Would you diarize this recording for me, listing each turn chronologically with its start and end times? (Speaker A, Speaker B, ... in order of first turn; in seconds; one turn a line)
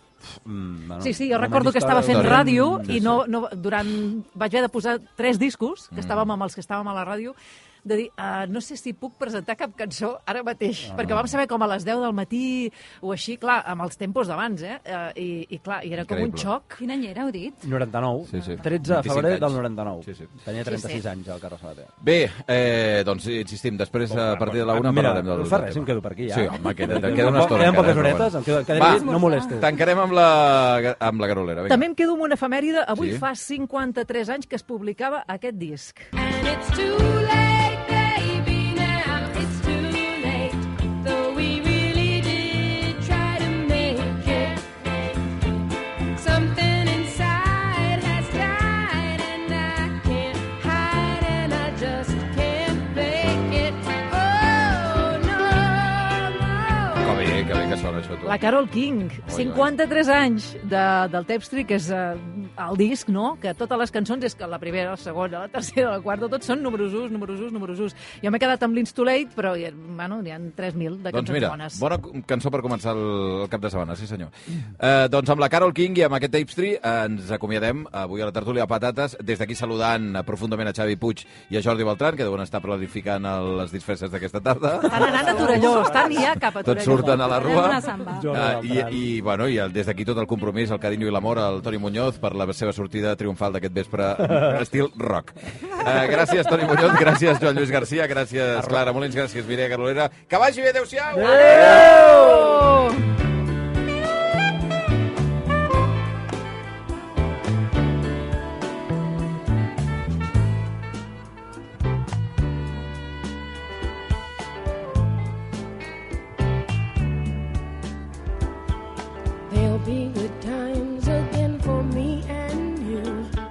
Speaker A: 0.2-3.2
Speaker B: 1.0-16.8
Speaker C: 2.1-3.1
Speaker C: 5.9-6.3
Speaker A: 10.8-11.1
Speaker C: 16.0-16.5
Speaker D: 16.8-17.7
Speaker A: 17.6-21.9
Speaker C: 18.3-20.3
Speaker B: 20.6-21.0
Speaker C: 22.0-31.9
Speaker A: 24.1-29.7
Speaker D: 27.3-27.8
Speaker D: 28.8-29.6
Speaker B: 31.7-36.1
Speaker C: 32.9-33.2
Speaker E: 36.1-45.4
Speaker E: 46.1-57.4
Speaker C: 57.0-58.4
Speaker B: 58.2-71.8
Speaker C: 59.2-59.7
Speaker C: 71.1-85.9
Speaker A: 84.8-86.2
Speaker B: 84.9-87.8
Speaker C: 86.6-102.1
Speaker D: 87.2-88.3
Speaker A: 88.1-89.0
Speaker A: 98.5-98.8
Speaker A: 101.1-102.7
Speaker B: 101.3-103.0
Speaker E: 119.5-123.3